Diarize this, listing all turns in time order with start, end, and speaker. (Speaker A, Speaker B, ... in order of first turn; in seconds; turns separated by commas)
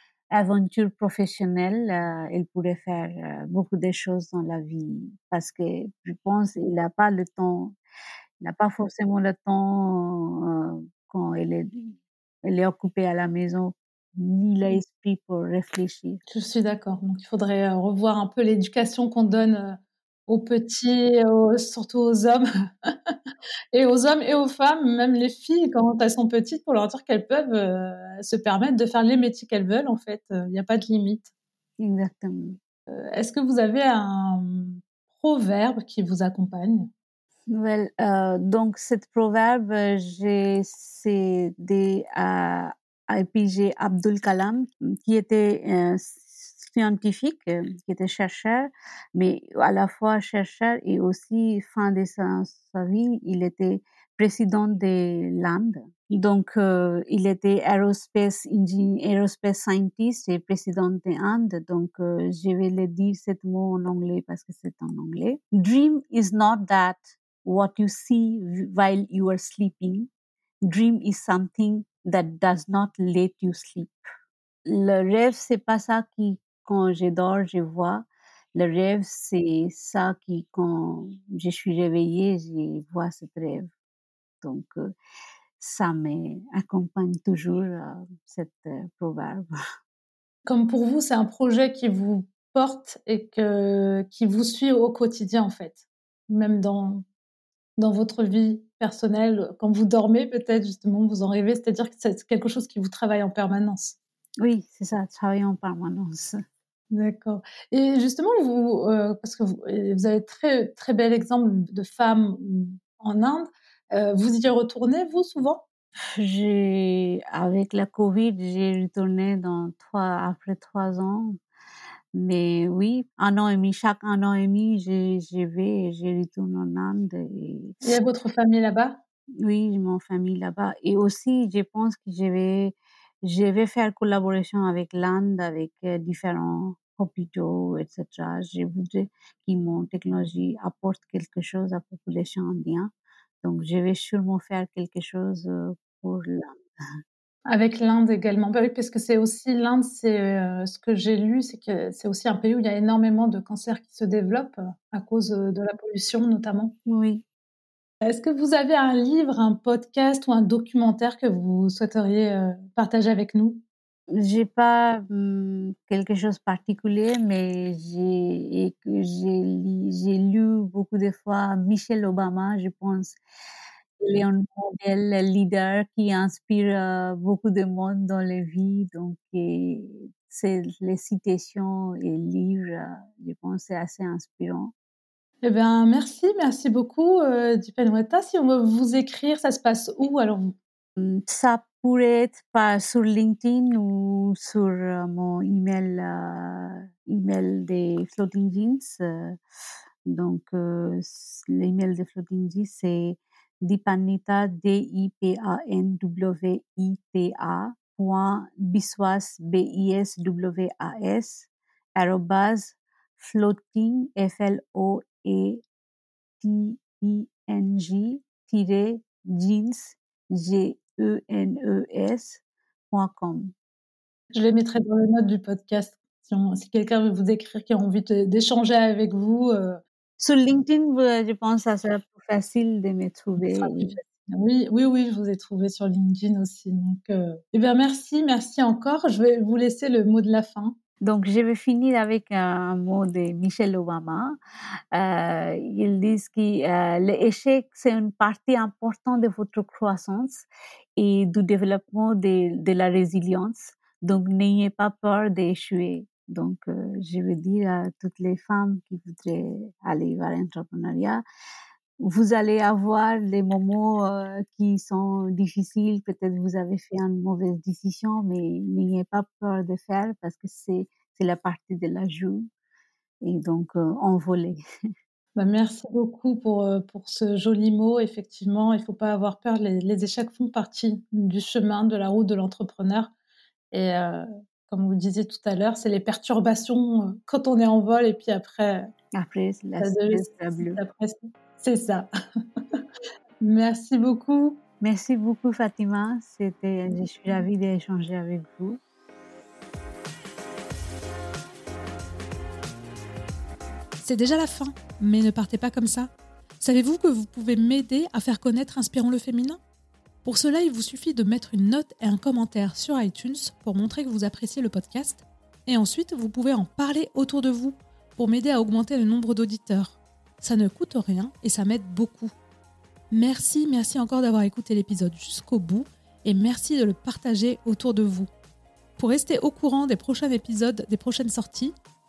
Speaker A: 0.3-7.8, Speaker A: 8.4-11.9, Speaker A: 12.4-16.2, Speaker B: 16.3-23.1, Speaker B: 23.7-31.2, Speaker A: 31.8-32.6, Speaker B: 32.9-36.9, Speaker A: 37.5-70.1, Speaker A: 70.7-74.1, Speaker A: 74.7-83.7, Speaker A: 84.4-84.9, Speaker A: 85.6-89.5, Speaker B: 90.5-97.0, Speaker B: 97.8-104.0, Speaker A: 104.4-106.4, Speaker B: 106.9-115.6, Speaker A: 116.2-121.4, Speaker A: 122.1-127.8, Speaker B: 127.8-129.0, Speaker A: 129.4-142.9, Speaker A: 143.4-146.6, Speaker B: 147.5-156.7, Speaker A: 156.9-157.2, Speaker B: 158.0-163.6, Speaker A: 164.1-173.2, Speaker A: 174.0-184.7, Speaker B: 185.4-190.5, Speaker A: 191.0-199.4, Speaker A: 200.1-215.6, Speaker A: 216.4-223.5, Speaker B: 224.3-229.8, Speaker A: 230.2-234.0, Speaker B: 233.4-240.8, Speaker A: 241.0-244.3, Speaker A: 244.9-261.2, Speaker A: 262.0-272.4, Speaker A: 273.2-274.6, Speaker B: 275.3-283.1, Speaker B: 283.7-288.9, Speaker A: 289.1-290.8, Speaker B: 289.8-292.1, Speaker B: 293.4-294.6, Speaker A: 294.8-298.8, Speaker B: 304.0-309.6, Speaker B: 310.2-322.3, Speaker B: 323.1-328.3, Speaker B: 329.0-331.7